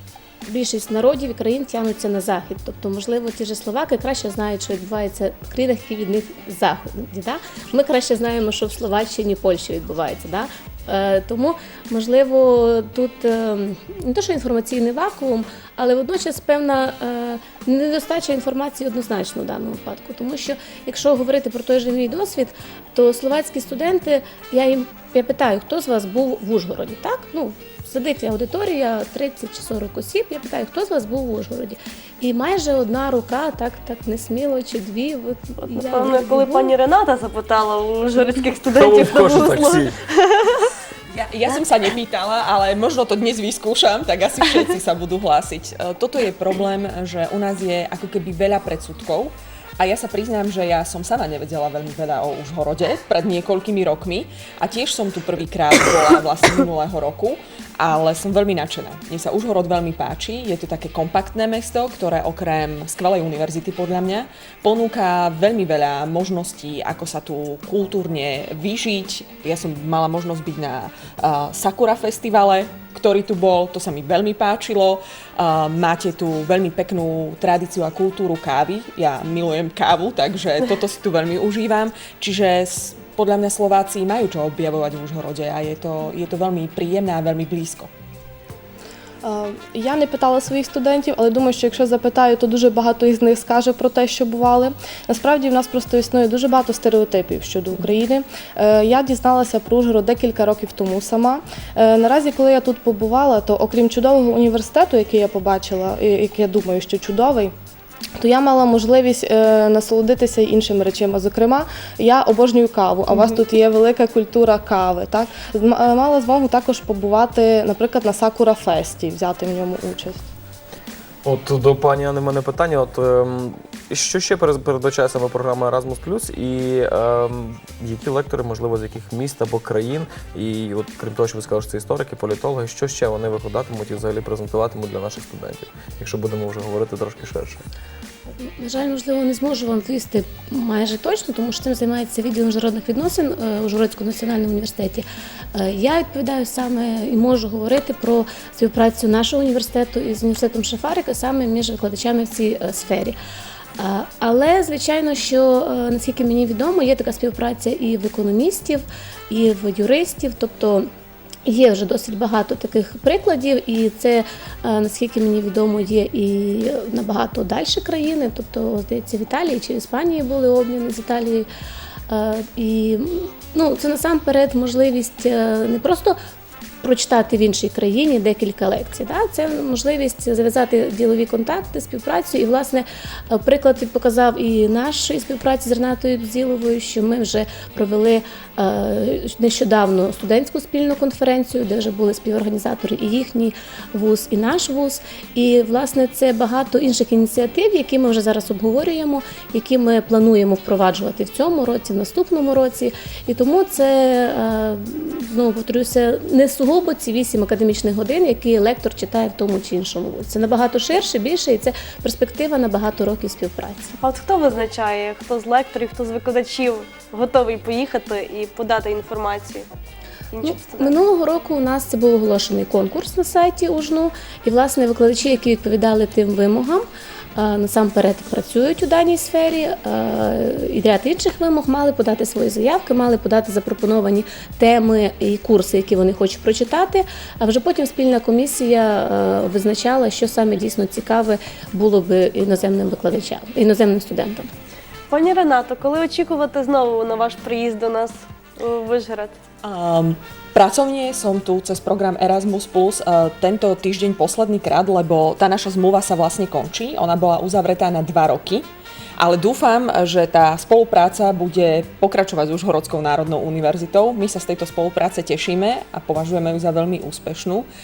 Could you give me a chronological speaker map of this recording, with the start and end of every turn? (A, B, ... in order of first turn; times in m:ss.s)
0:00.4-0:36.7 A
0:35.7-0:40.7 B
0:38.7-0:39.9 C
0:41.1-1:27.9 D
1:29.2-1:47.5 E
1:48.2-2:00.2 E
2:01.2-2:17.6 C
2:18.6-2:33.2 A
2:33.8-2:40.8 A
2:41.4-2:51.5 A
2:52.1-2:56.2 A
2:56.8-3:33.9 A
3:34.0-3:39.6 B
3:40.3-3:40.9 B
3:40.4-4:04.5 A
4:05.1-4:09.4 B
4:09.6-4:18.6 D
4:19.2-4:27.7 D